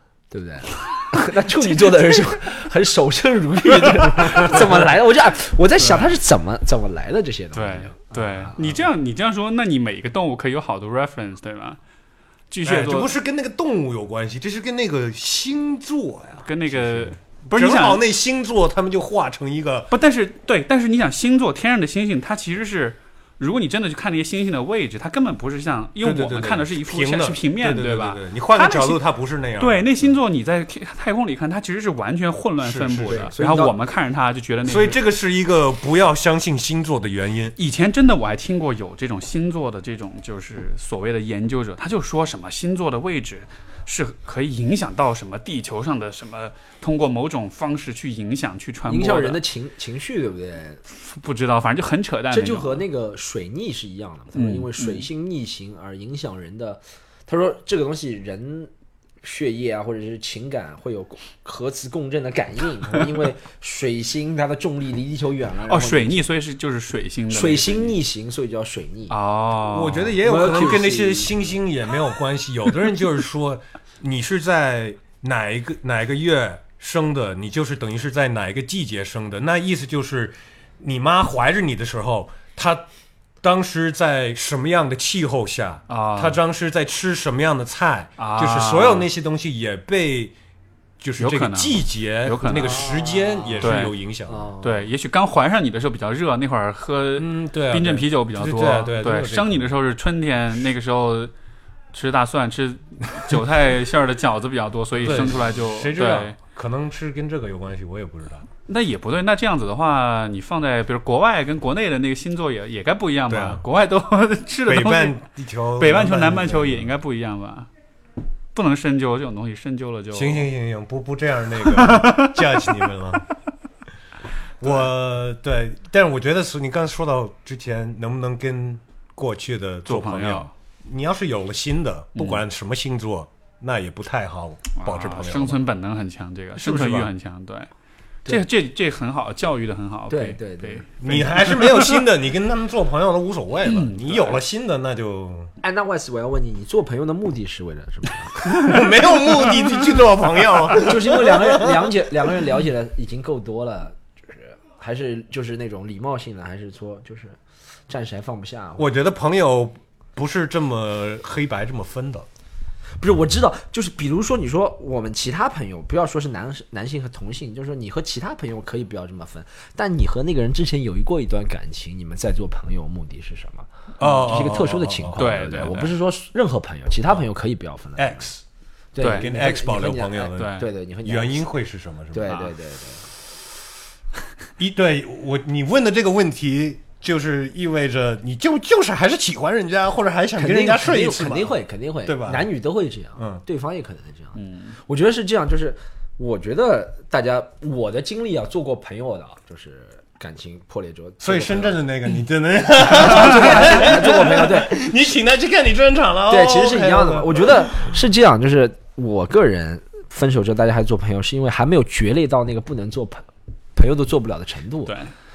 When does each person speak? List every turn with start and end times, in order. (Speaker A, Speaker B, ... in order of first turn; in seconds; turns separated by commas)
Speaker A: 0.3-8.8, Speaker B: 4.2-4.6, Speaker C: 5.8-6.1, Speaker C: 7.5-11.8, Speaker C: 12.5-13.1, Speaker B: 12.6-19.9, Speaker C: 16.4-18.0, Speaker C: 19.9-29.0, Speaker B: 26.0-30.2, Speaker C: 29.6-35.0, Speaker B: 32.6-33.3, Speaker A: 33.1-33.8, Speaker B: 34.6-37.6, Speaker C: 37.6-49.4, Speaker A: 48.9-50.8, Speaker C: 50.9-52.8, Speaker A: 52.3-58.7, Speaker C: 54.3-55.1, Speaker A: 59.2-66.2, Speaker C: 65.7-68.0, Speaker A: 67.3-69.2, Speaker C: 69.1-70.2, Speaker B: 69.7-82.8, Speaker A: 70.2-71.5, Speaker B: 83.4-90.3, Speaker C: 85.9-86.4, Speaker C: 88.2-89.1, Speaker B: 91.0-94.5, Speaker C: 91.2-92.9, Speaker A: 92.5-94.9, Speaker C: 93.6-93.9, Speaker C: 94.6-101.3, Speaker B: 97.2-99.8, Speaker C: 101.9-106.4, Speaker B: 105.0-108.5, Speaker C: 108.7-115.2, Speaker B: 113.3-113.7, Speaker B: 114.7-116.9, Speaker C: 115.8-117.7, Speaker C: 118.5-120.5, Speaker B: 120.1-123.2, Speaker C: 121.7-122.7, Speaker B: 124.6-135.6, Speaker C: 129.9-130.5, Speaker C: 132.2-132.4, Speaker C: 134.8-137.7, Speaker B: 136.6-137.1, Speaker C: 138.3-142.1, Speaker A: 140.1-140.8, Speaker B: 141.0-145.5, Speaker C: 143.7-144.4, Speaker A: 145.6-148.7, Speaker B: 148.6-151.9, Speaker A: 150.8-157.4, Speaker A: 157.9-158.9, Speaker B: 158.8-162.3, Speaker A: 163.0-178.2, Speaker B: 174.0-175.2, Speaker C: 175.2-176.0, Speaker B: 178.0-178.4, Speaker A: 178.9-181.4, Speaker C: 179.0-179.3, Speaker B: 179.0-182.4, Speaker C: 180.4-180.7, Speaker A: 182.1-183.1, Speaker B: 184.6-192.5, Speaker A: 190.4-201.8, Speaker C: 194.3-194.8, Speaker B: 201.2-208.0, Speaker A: 202.8-204.8, Speaker A: 206.3-215.0, Speaker C: 214.9-215.1